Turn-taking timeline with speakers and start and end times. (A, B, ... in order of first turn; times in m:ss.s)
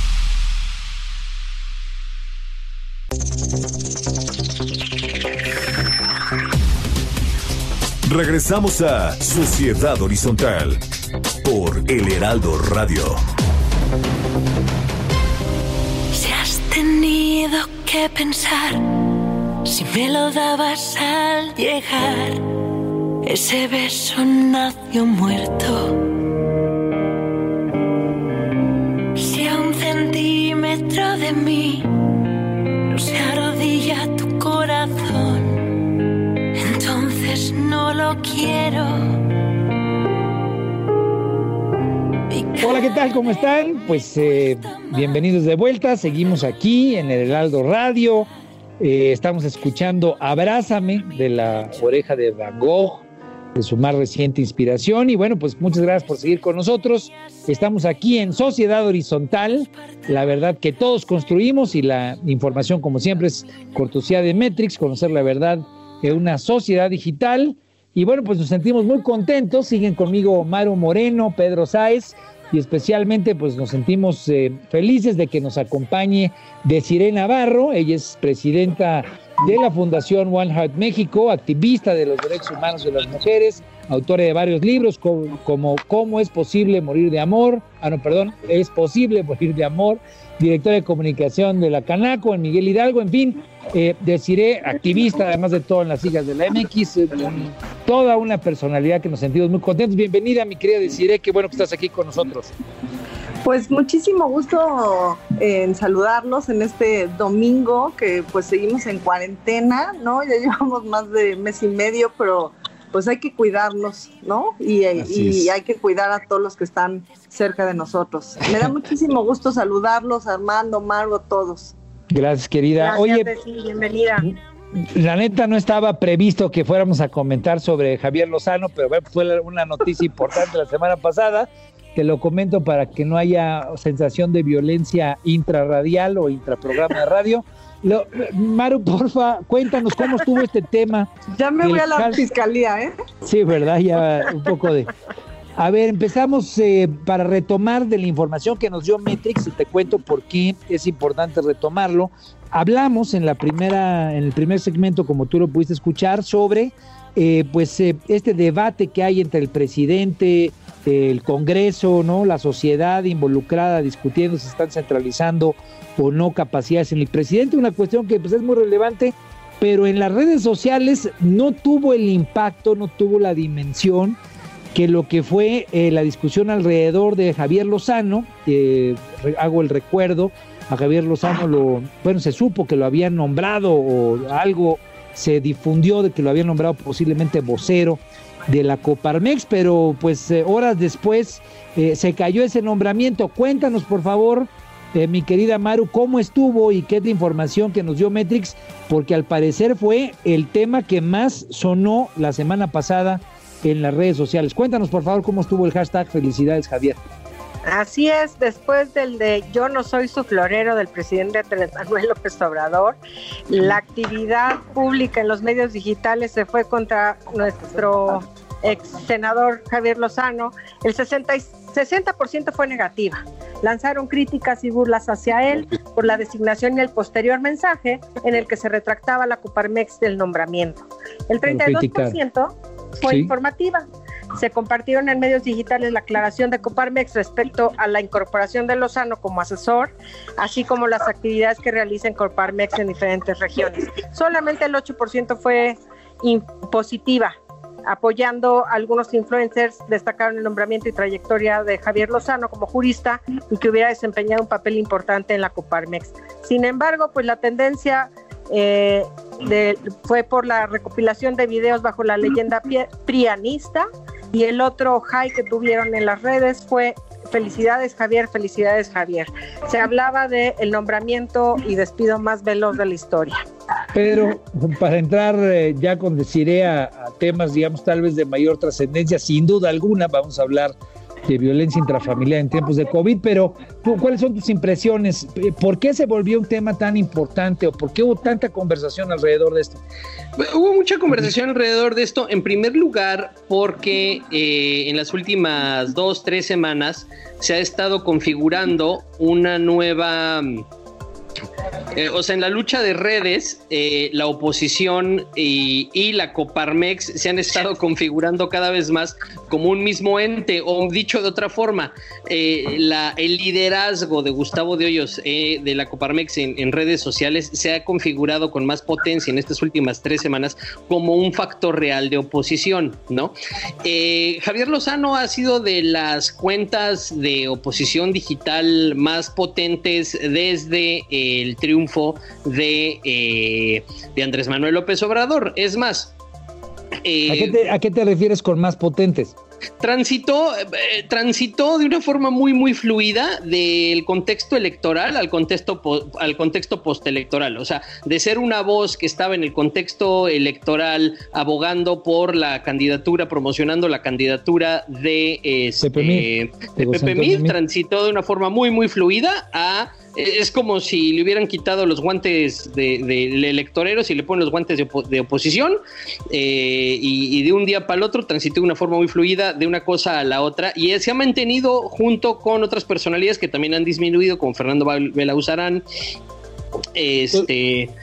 0:08.0-0:10.8 A
0:11.4-0:13.2 A
0:16.1-0:22.4 B
0:23.2-0:26.1 B
0:29.2-0:32.1 B
0:32.9-0:35.8 B
0:36.6-0:39.2 B
0:42.3-0:43.1 B
0:42.6-1:42.5 C
1:43.4-2:01.7 D
1:55.0-1:55.5 C
2:02.1-2:03.3 C
2:02.8-2:04.3 E
2:04.8-2:22.3 C
2:21.3-2:22.9 D
2:23.2-2:24.9 C
2:25.6-2:54.2 C
2:54.7-3:27.0 C
3:27.6-3:33.0 E
3:33.5-3:53.8 E
3:37.8-3:38.2 D
3:51.4-3:52.2 C
3:53.0-3:53.3 C
3:54.4-4:07.3 E
4:07.8-4:33.4 E
4:33.9-4:40.7 C
4:41.3-4:49.8 C
4:50.4-5:00.6 F
5:01.9-5:36.1 F
5:37.0-5:37.6 F
5:37.3-5:39.4 C
5:39.8-6:15.8 F
5:55.8-5:57.5 C
6:16.9-6:17.9 F